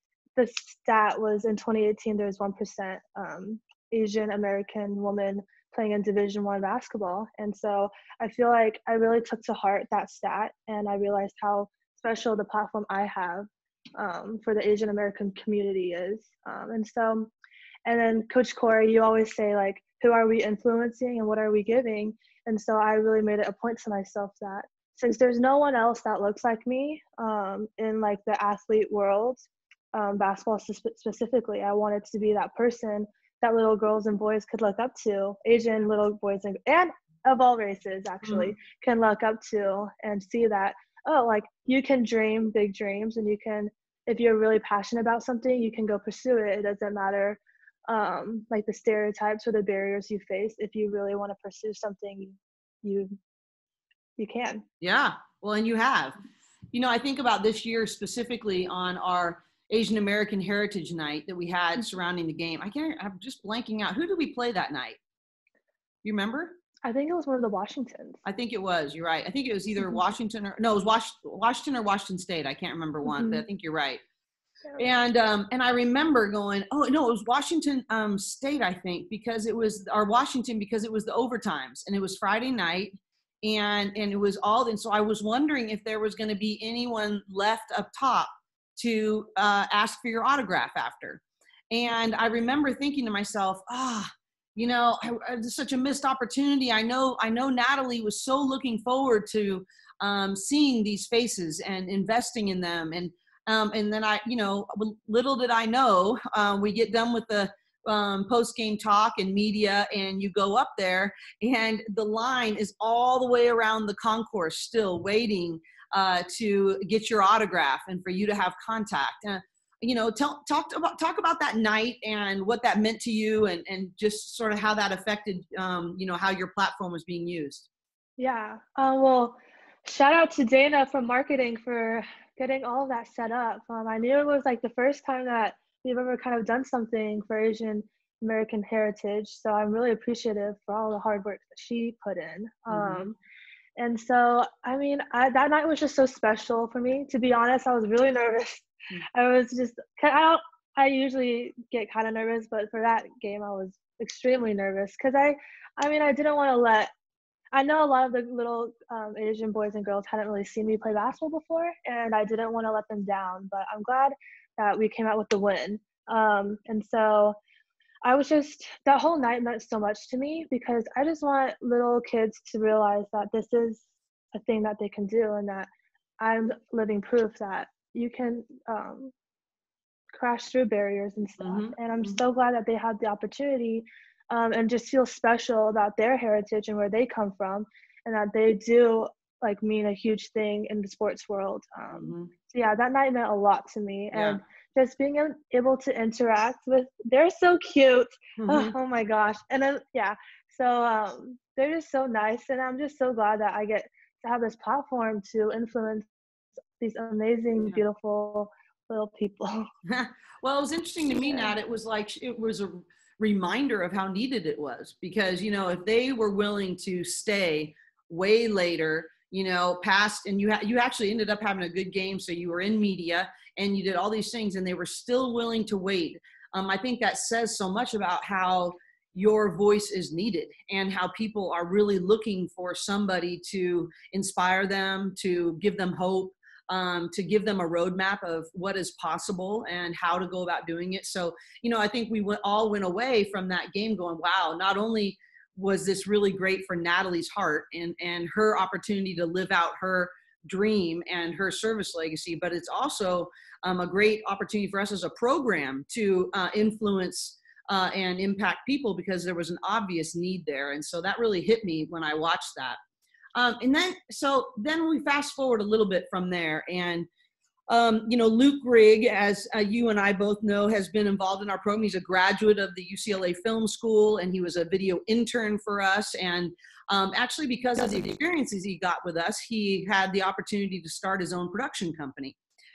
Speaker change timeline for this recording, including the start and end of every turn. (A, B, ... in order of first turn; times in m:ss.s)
0:00.4-0:17.3 A
0:17.8-0:53.2 A
0:38.2-0:38.5 B
0:54.2-0:54.6 A
0:54.8-0:56.2 B
0:56.7-1:05.0 B
1:06.0-1:06.6 B
1:06.8-1:08.2 A
1:08.2-1:14.0 B
1:13.0-1:13.4 A
1:14.8-2:07.7 B
2:08.2-2:23.2 A
2:22.7-2:23.0 B
2:23.8-2:36.9 A
2:37.5-2:47.4 A
2:48.0-2:59.1 A
3:00.1-3:26.1 A
3:01.4-3:02.2 B
3:11.9-3:12.3 B
3:14.1-3:14.4 B
3:18.4-3:18.7 B
3:26.8-3:29.7 A
3:29.8-4:22.8 B
3:31.2-3:31.5 A
4:23.3-4:27.1 B
4:27.7-4:42.4 B